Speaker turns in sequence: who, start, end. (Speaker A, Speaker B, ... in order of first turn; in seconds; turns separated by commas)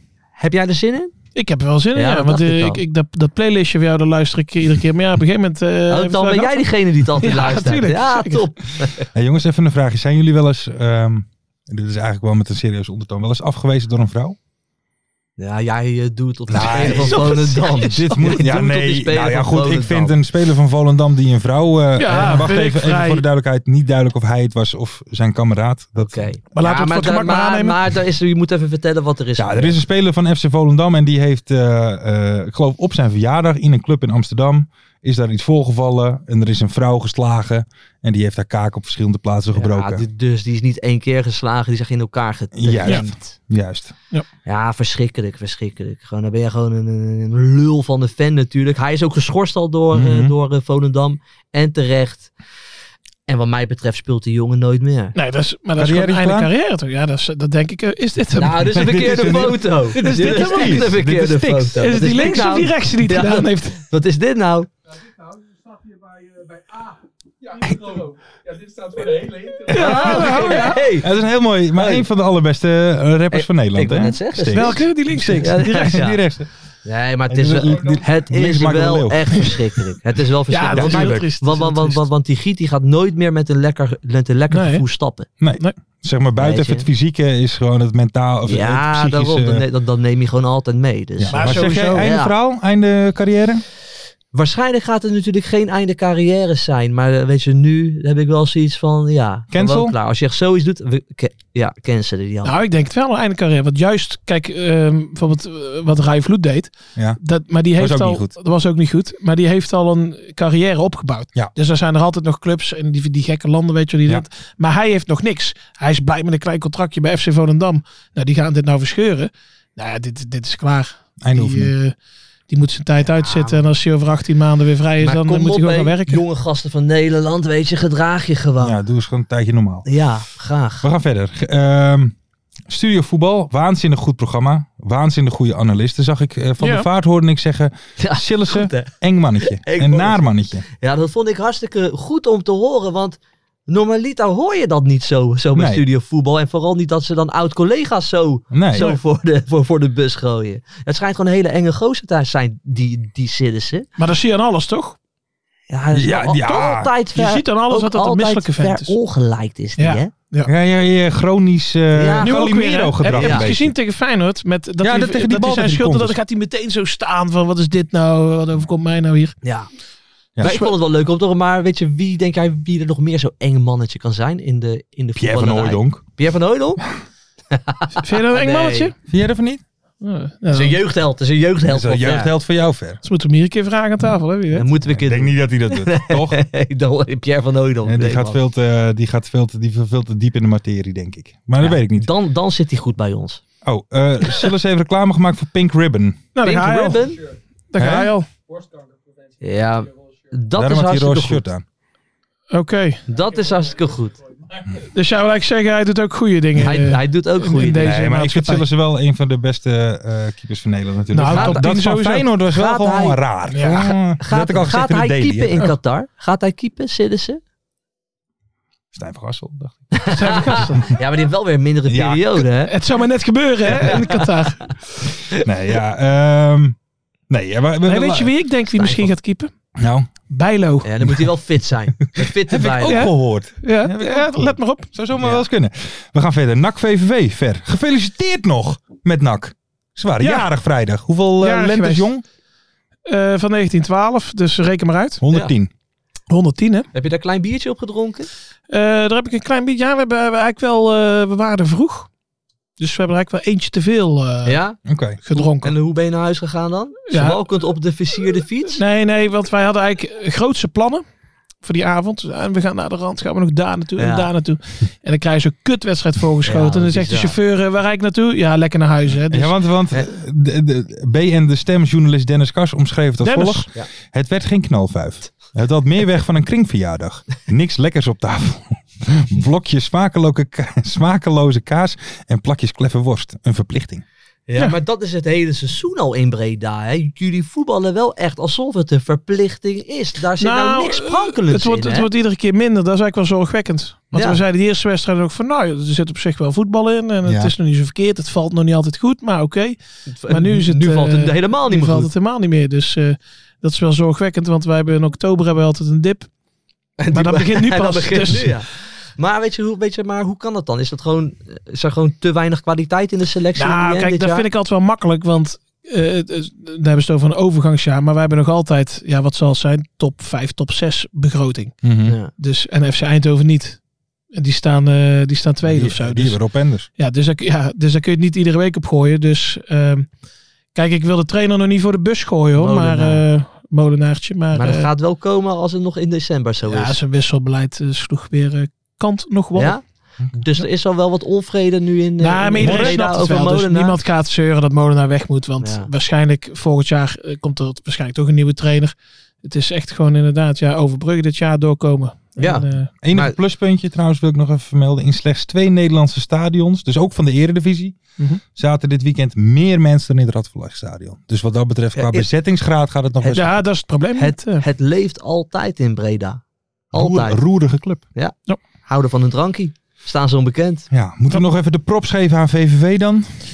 Speaker A: 0.4-1.1, Speaker B: 1.3-8.4, Speaker A: 1.9-2.8, Speaker A: 5.9-9.1, Speaker C: 9.1-14.4, Speaker A: 15.4-20.1, Speaker C: 16.5-26.3, Speaker B: 16.6-18.3, Speaker B: 22.0-23.2, Speaker A: 26.0-29.8, Speaker B: 26.5-27.8, Speaker C: 29.4-40.0, Speaker A: 39.5-43.3, Speaker C: 42.5-43.9, Speaker A: 44.5-52.3, Speaker C: 49.9-50.3, Speaker A: 53.3-55.1, Speaker B: 55.1-59.3, Speaker C: 55.8-56.5, Speaker A: 58.4-64.7, Speaker C: 58.7-62.0, Speaker B: 60.0-60.9, Speaker B: 61.8-63.8, Speaker C: 67.6-68.1, Speaker C: 68.8-76.5, Speaker A: 69.5-71.1, Speaker B: 69.7-70.8, Speaker A: 71.7-72.0, Speaker A: 73.3-74.8, Speaker B: 74.5-76.0, Speaker A: 75.4-76.2, Speaker A: 76.8-85.3, Speaker C: 77.3-79.6, Speaker B: 80.5-82.0, Speaker C: 80.7-81.2, Speaker B: 84.5-84.8, Speaker C: 85.4-89.6, Speaker A: 86.4-86.9, Speaker A: 88.5-92.3, Speaker C: 91.2-93.6, Speaker B: 91.3-92.1, Speaker A: 94.3-102.6, Speaker C: 99.5-99.9, Speaker B: 102.4-121.9, Speaker C: 107.8-108.3, Speaker C: 121.2-121.7, Speaker B: 122.5-126.2, Speaker A: 123.1-123.7, Speaker A: 125.0-128.7, Speaker C: 128.6-129.9, Speaker A: 129.8-130.9, Speaker C: 130.8-132.1, Speaker C: 132.7-140.6, Speaker B: 136.6-136.9, Speaker A: 138.0-153.9, Speaker C: 145.5-145.8, Speaker C: 148.5-148.9, Speaker B: 154.0-155.0, Speaker A: 155.7-160.1, Speaker C: 155.9-156.9, Speaker B: 157.1-159.0, Speaker B: 159.8-160.5, Speaker C: 160.4-163.7, Speaker A: 161.9-162.4, Speaker B: 162.2-169.4, Speaker A: 163.2-163.5, Speaker C: 164.8-166.2, Speaker A: 169.4-169.7, Speaker A: 170.4-176.8, Speaker B: 170.4-170.7, Speaker C: 175.2-176.0, Speaker A: 177.5-178.9, Speaker B: 178.0-178.9, Speaker C: 179.1-179.6, Speaker B: 180.0-180.8, Speaker A: 180.5-182.3, Speaker C: 181.7-183.0, Speaker B: 183.0-184.6, Speaker A: 184.5-188.4, Speaker C: 184.9-186.4, Speaker C: 187.8-192.1, Speaker A: 191.6-193.4, Speaker C: 193.6-196.2, Speaker B: 196.3-198.3, Speaker A: 196.4-197.2, Speaker C: 197.8-198.1, Speaker A: 199.4-201.4, Speaker C: 200.5-201.6, Speaker B: 202.5-203.0, Speaker A: 203.1-204.2, Speaker B: 204.8-208.6, Speaker A: 206.6-207.9, Speaker C: 207.8-215.7, Speaker B: 211.1-212.3, Speaker A: 211.2-211.7, Speaker A: 212.5-213.2, Speaker B: 213.5-213.9, Speaker A: 214.2-217.4, Speaker C: 218.9-220.0, Speaker A: 219.9-222.7, Speaker B: 220.1-220.9, Speaker C: 221.9-222.4, Speaker B: 222.7-224.7, Speaker C: 225.3-226.8, Speaker C: 227.3-228.3, Speaker B: 227.8-229.5, Speaker A: 228.7-229.1, Speaker C: 229.8-230.1, Speaker B: 230.3-231.0, Speaker A: 230.8-233.1, Speaker C: 232.2-242.2, Speaker B: 232.8-234.9, Speaker A: 235.2-235.4, Speaker B: 240.2-240.5, Speaker B: 241.4-242.1, Speaker B: 243.1-245.2, Speaker C: 245.2-245.7, Speaker B: 246.3-246.9, Speaker A: 246.9-248.3, Speaker B: 248.7-252.1, Speaker B: 252.8-254.6, Speaker A: 254.4-254.8, Speaker C: 254.8-255.2, Speaker B: 255.2-255.7, Speaker A: 255.3-258.8, Speaker B: 257.1-257.4, Speaker B: 258.8-261.0, Speaker B: 261.6-269.5, Speaker A: 264.0-264.3, Speaker A: 266.4-267.4, Speaker C: 269.3-284.0, Speaker B: 273.2-273.7, Speaker A: 284.5-292.1, Speaker B: 290.4-306.3, Speaker A: 294.1-294.4, Speaker C: 297.2-297.5, Speaker A: 300.1-302.1, Speaker A: 307.0-314.5, Speaker B: 307.1-308.6, Speaker B: 313.6-321.8, Speaker C: 321.8-322.1, Speaker A: 322.1-322.3, Speaker B: 322.3-323.8, Speaker B: 324.3-326.4, Speaker C: 325.6-326.9, Speaker B: 327.0-330.1, Speaker B: 330.7-334.9, Speaker A: 332.6-333.2, Speaker A: 334.5-337.0, Speaker B: 336.7-339.8, Speaker A: 339.5-344.0, Speaker B: 342.2-352.9, Speaker C: 342.6-343.0, Speaker A: 345.6-345.9, Speaker A: 352.4-353.4, Speaker C: 353.0-358.0, Speaker C: 358.6-363.6, Speaker A: 361.9-362.3, Speaker A: 363.2-363.5, Speaker B: 363.3-364.6, Speaker A: 364.1-366.4, Speaker C: 366.9-368.0, Speaker A: 366.9-367.4, Speaker A: 368.1-370.9, Speaker C: 370.9-373.3